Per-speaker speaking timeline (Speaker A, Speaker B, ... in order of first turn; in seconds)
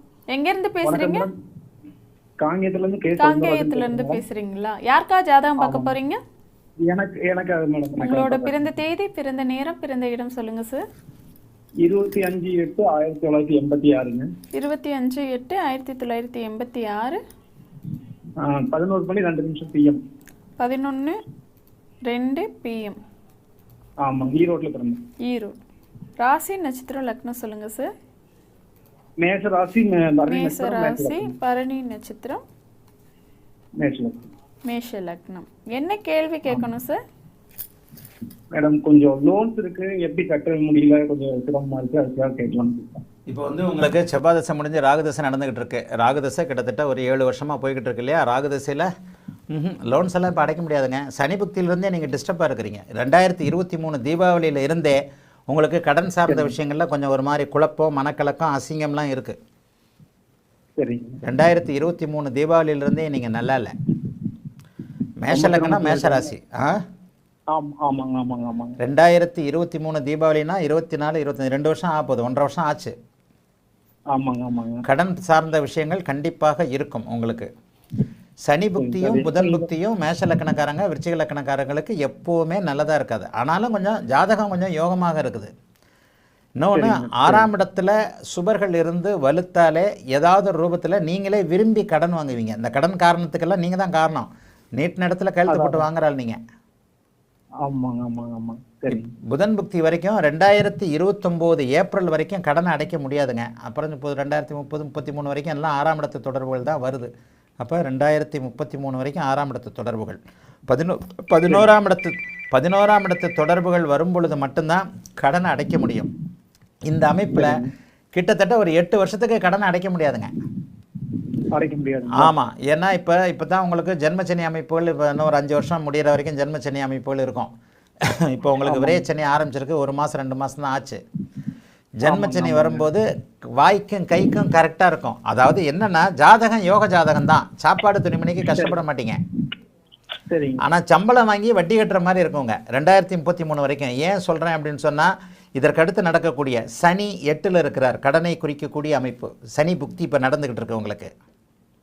Speaker A: 0.3-1.3, 3.2-6.2, 8.0-10.8, 14.5-17.2, 20.6-21.2, 22.1-23.0, 25.2-25.5, 26.2-27.9, 30.3-32.4, 34.6-37.0
Speaker B: 0.8-1.3, 2.4-4.2, 5.6-5.9, 6.8-8.5, 11.8-14.3, 18.4-20.0, 24.0-25.0, 29.2-31.3, 33.8-34.3, 38.5-43.0, 56.2-56.5, 60.8-61.2, 65.3-66.3, 67.5-68.8, 74.1-74.8, 78.8-79.7, 86.7-87.5, 95.5-95.8, 97.6-99.1, 117.3-117.7, 121.5-122.3, 128.6-129.0, 132.0-132.9, 138.5-138.8, 140.2-140.6
Speaker C: 43.3-48.9, 49.5-59.4, 61.2-63.7, 65.2-66.8, 68.8-72.9, 74.8-77.5, 78.5-85.5, 86.6-96.4, 98.9-107.1, 107.6-116.1, 116.9-117.6, 118.1-120.3, 122.2-127.5, 128.1-131.0, 132.0-133.0, 133.6-139.2, 140.6-151.1